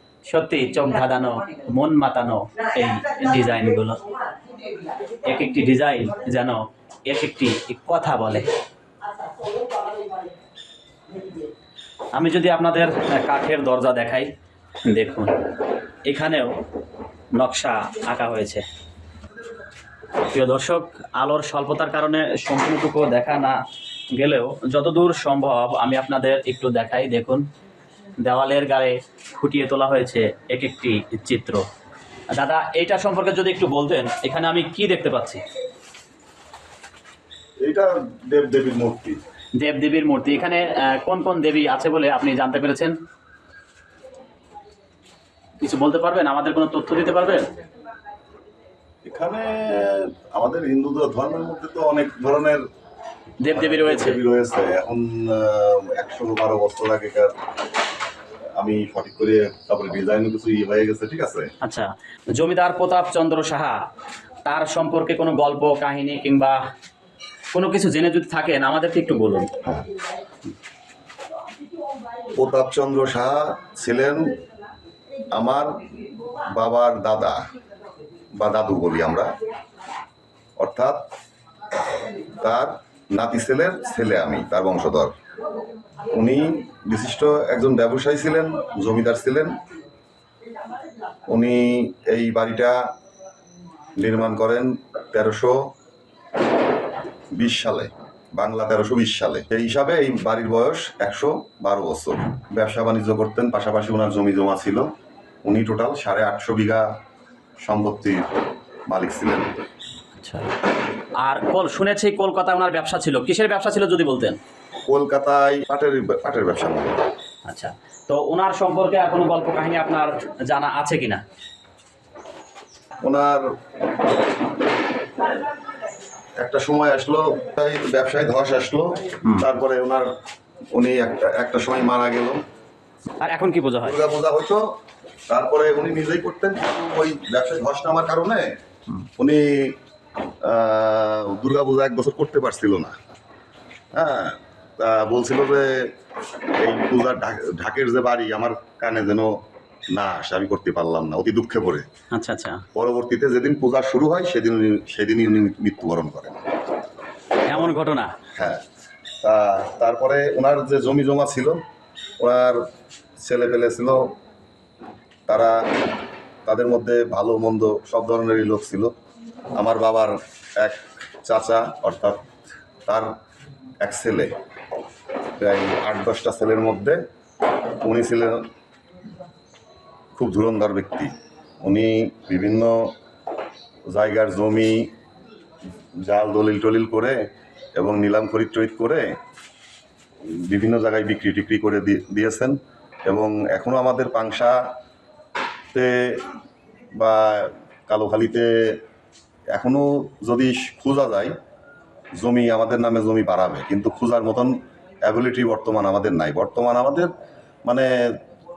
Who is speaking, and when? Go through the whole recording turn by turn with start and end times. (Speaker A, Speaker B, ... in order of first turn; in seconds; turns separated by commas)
Speaker A: 0.3-4.0, Speaker A: 5.2-8.5, Speaker A: 12.1-14.3, Speaker A: 14.8-15.4, Speaker A: 16.1-16.6, Speaker A: 17.4-18.6, Speaker A: 20.3-23.6, Speaker A: 24.1-27.4, Speaker A: 28.2-31.6, Speaker A: 32.3-35.4, Speaker B: 37.6-39.2, Speaker A: 39.6-43.0, Speaker A: 45.6-47.5, Speaker B: 49.0-52.6, Speaker A: 53.4-54.2, Speaker B: 53.5-57.3, Speaker B: 58.6-61.5, Speaker A: 61.6-63.8, Speaker A: 64.5-66.6, Speaker A: 67.5-69.5, Speaker B: 69.6-69.9, Speaker B: 72.4-74.3, Speaker B: 75.3-75.8, Speaker B: 76.5-77.4, Speaker B: 78.4-79.3, Speaker B: 80.6-81.1, Speaker B: 82.4-85.1, Speaker B: 86.1-89.6, Speaker B: 91.3-92.8, Speaker B: 94.0-95.7, Speaker B: 97.3-104.9, Speaker B: 105.4-106.9, Speaker B: 107.6-108.3, Speaker B: 108.9-109.5, Speaker A: 110.2-110.5, Speaker A: 111.2-114.4, Speaker B: 114.9-117.0, Speaker A: 117.5-121.2, Speaker B: 123.0-123.5, Speaker B: 126.4-130.1, Speaker B: 130.7-132.4, Speaker A: 133.2-134.0, Speaker B: 133.8-134.7, Speaker B: 135.3-138.6, Speaker B: 139.2-139.8, Speaker B: 140.4-142.9, Speaker B: 143.9-145.9, Speaker B: 146.6-149.4, Speaker B: 149.9-151.9, Speaker A: 152.1-152.7, Speaker B: 152.8-156.4, Speaker A: 157.5-158.1, Speaker B: 157.5-157.8, Speaker B: 158.3-158.6, Speaker B: 159.2-161.6, Speaker B: 162.2-162.6, Speaker B: 163.2-164.1, Speaker B: 165.3-165.6, Speaker B: 166.5-168.9, Speaker B: 169.6-173.1, Speaker B: 173.8-174.3, Speaker B: 175.4-177.0, Speaker B: 177.8-178.5, Speaker B: 180.2-182.9, Speaker B: 183.9-184.9, Speaker B: 186.0-187.2, Speaker B: 187.8-189.2, Speaker B: 190.2-194.7, Speaker B: 195.7-196.3, Speaker B: 197.0-198.8, Speaker B: 199.5-201.3, Speaker B: 202.2-207.1, Speaker B: 207.7-208.2